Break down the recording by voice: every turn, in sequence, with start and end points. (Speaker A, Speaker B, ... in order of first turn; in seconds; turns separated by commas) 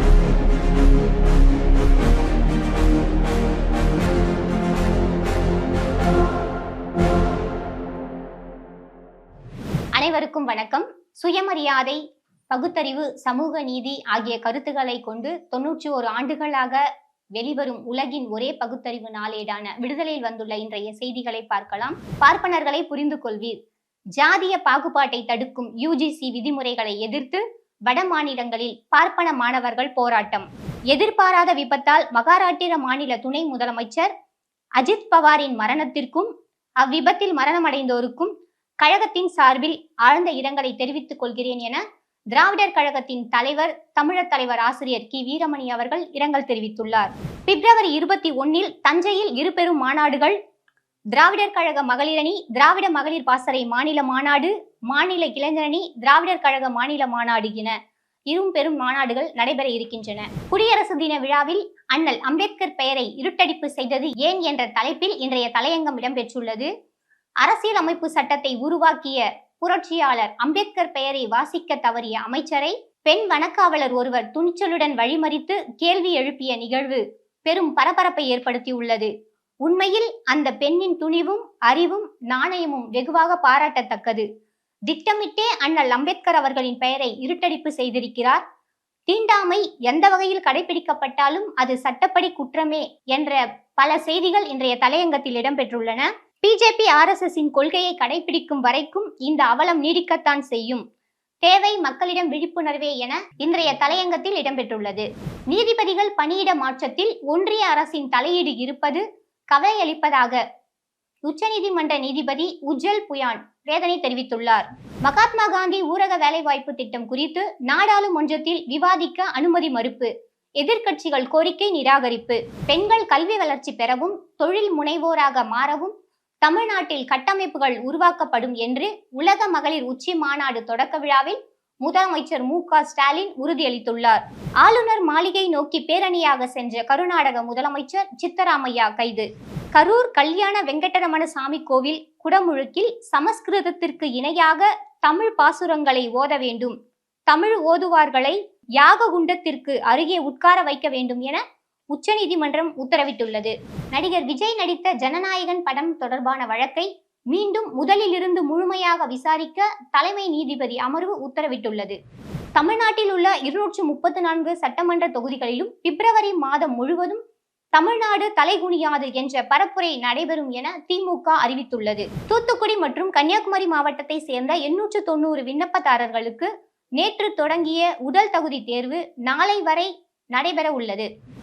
Speaker A: 10.0-12.0, Speaker A: 12.5-16.8, Speaker A: 17.4-23.5, Speaker A: 24.2-34.1, Speaker A: 34.8-36.3, Speaker A: 36.8-41.8, Speaker A: 42.3-50.4, Speaker A: 51.1-57.7, Speaker A: 58.3-66.7, Speaker A: 67.4-79.1, Speaker A: 79.6-84.2, Speaker A: 84.9-88.4, Speaker A: 89.1-100.8, Speaker A: 101.4-110.4, Speaker A: 111.2-125.9, Speaker A: 126.4-146.7, Speaker A: 147.3-151.4, Speaker A: 151.9-162.0, Speaker A: 162.6-167.2, Speaker A: 167.7-181.1